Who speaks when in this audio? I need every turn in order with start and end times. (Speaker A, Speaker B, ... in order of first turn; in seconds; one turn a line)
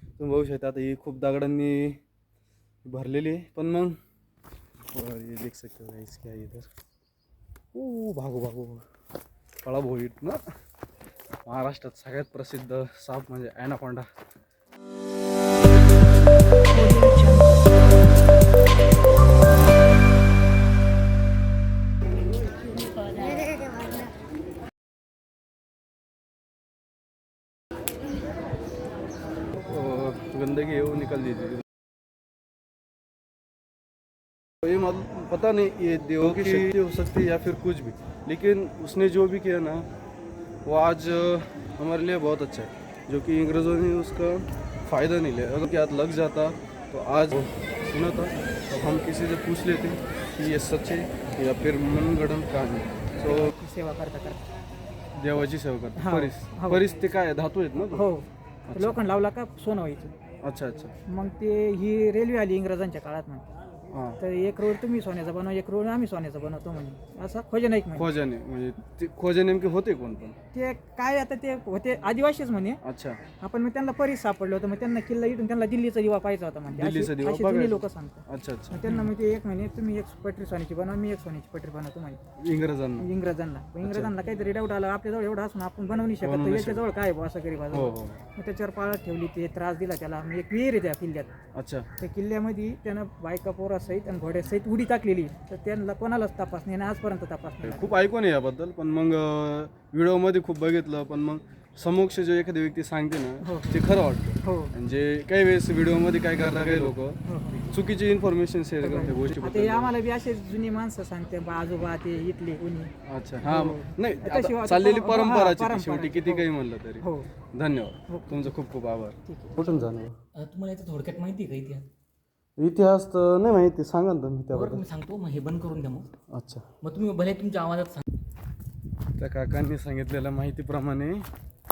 Speaker A: 0.2-2.0
Speaker A: 2.8-4.0
Speaker A: 4.9-6.7
Speaker A: 7.7-8.8
Speaker A: 9.6-10.4
Speaker A: 11.4-14.1
Speaker B: 16.7-17.8
Speaker A: 29.6-31.6
Speaker A: 34.6-39.9
Speaker A: 40.6-53.5
Speaker B: 53.2-54.4
Speaker A: 55.1-58.1
Speaker B: 56.0-56.8
Speaker B: 57.9-60.1
Speaker A: 58.7-59.0
Speaker A: 60.4-60.9
Speaker B: 61.1-63.5
Speaker A: 63.9-64.2
Speaker B: 64.2-68.1
Speaker A: 67.9-70.3
Speaker B: 70.5-72.8
Speaker A: 72.8-73.2
Speaker B: 73.4-82.2
Speaker A: 76.7-79.1
Speaker A: 82.4-83.1
Speaker B: 83.0-91.3
Speaker A: 83.8-84.1
Speaker A: 86.2-86.8
Speaker A: 87.7-88.2
Speaker A: 91.5-91.9
Speaker B: 92.0-98.0
Speaker A: 97.6-109.9
Speaker B: 103.4-103.9
Speaker B: 104.4-104.7
Speaker B: 107.2-107.7
Speaker B: 108.8-112.9
Speaker A: 113.0-120.2
Speaker B: 113.4-116.5
Speaker B: 117.0-117.3
Speaker B: 118.1-118.5
Speaker B: 119.2-119.7
Speaker C: 120.3-121.9
Speaker A: 122.6-124.8
Speaker C: 124.5-126.1
Speaker A: 126.3-126.7
Speaker C: 126.8-128.0
Speaker A: 129.1-131.3